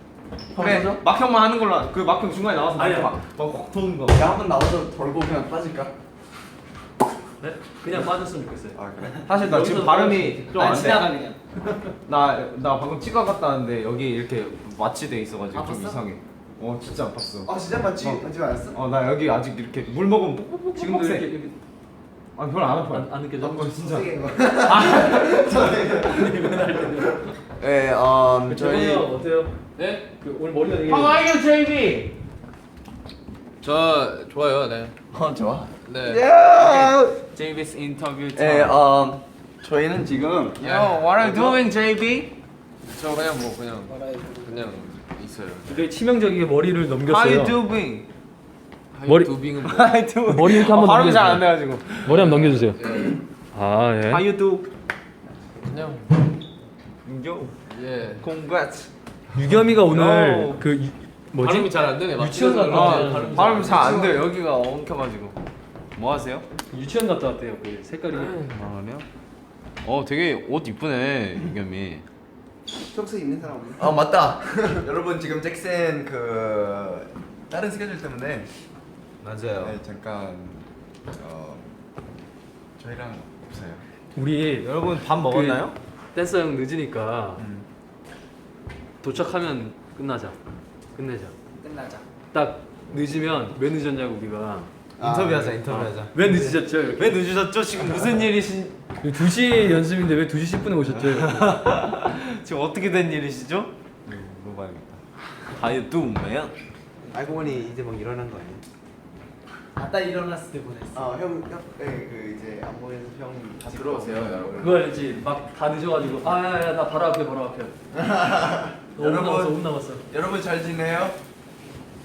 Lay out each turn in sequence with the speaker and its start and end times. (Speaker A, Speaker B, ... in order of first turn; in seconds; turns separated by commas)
Speaker A: 0.5-1.0, Speaker B: 0.6-4.4, Speaker C: 2.8-3.1, Speaker A: 4.1-5.9, Speaker C: 7.4-10.6, Speaker A: 8.8-9.2, Speaker B: 9.2-11.2, Speaker D: 10.5-11.4, Speaker B: 12.1-21.3, Speaker D: 15.5-16.0, Speaker E: 17.4-18.8, Speaker C: 20.8-21.6, Speaker B: 22.4-24.1, Speaker C: 22.9-23.8, Speaker E: 23.4-26.3, Speaker C: 24.6-27.4, Speaker A: 27.6-29.1, Speaker C: 28.5-29.5, Speaker F: 29.8-30.1, Speaker C: 30.2-31.2, Speaker F: 30.9-32.1, Speaker F: 33.6-35.0, Speaker A: 35.1-35.7, Speaker F: 35.9-36.2, Speaker E: 36.0-37.2, Speaker B: 36.6-38.8, Speaker A: 38.4-41.6, Speaker F: 40.6-41.1, Speaker B: 40.6-42.3, Speaker F: 42.9-45.8, Speaker D: 44.0-44.5, Speaker C: 45.7-47.6, Speaker B: 47.1-48.1, Speaker F: 48.9-49.9, Speaker C: 49.0-49.4, Speaker B: 49.6-52.5, Speaker C: 50.3-51.5, Speaker C: 52.0-52.8, Speaker F: 52.7-53.2, Speaker C: 53.5-54.2, Speaker B: 54.1-54.7, Speaker F: 55.6-56.3, Speaker B: 57.0-57.5, Speaker F: 57.7-58.3, Speaker B: 58.2-58.9, Speaker C: 59.3-64.0, Speaker B: 59.9-60.6, Speaker F: 61.4-64.1, Speaker B: 62.5-65.4, Speaker B: 66.0-66.5, Speaker C: 66.7-68.4, Speaker F: 68.1-68.5, Speaker A: 68.6-69.0, Speaker B: 69.8-72.0, Speaker E: 72.9-74.8, Speaker A: 73.8-78.5, Speaker B: 79.2-79.8, Speaker A: 79.6-81.7, Speaker A: 82.8-83.8, Speaker C: 84.2-87.5, Speaker B: 84.6-85.8, Speaker A: 87.4-87.7, Speaker C: 89.0-90.4, Speaker C: 91.0-91.4, Speaker D: 91.6-92.1, Speaker C: 92.3-94.7, Speaker E: 95.0-95.6, Speaker B: 95.0-98.7, Speaker C: 95.5-97.2, Speaker C: 99.0-101.6, Speaker B: 101.0-105.0, Speaker B: 105.5-106.5, Speaker E: 107.1-108.6, Speaker D: 109.8-111.1, Speaker E: 110.9-114.6, Speaker A: 113.6-114.8, Speaker C: 114.6-117.7, Speaker E: 117.9-118.8, Speaker C: 119.0-120.0, Speaker A: 119.0-119.6, Speaker A: 120.1-121.2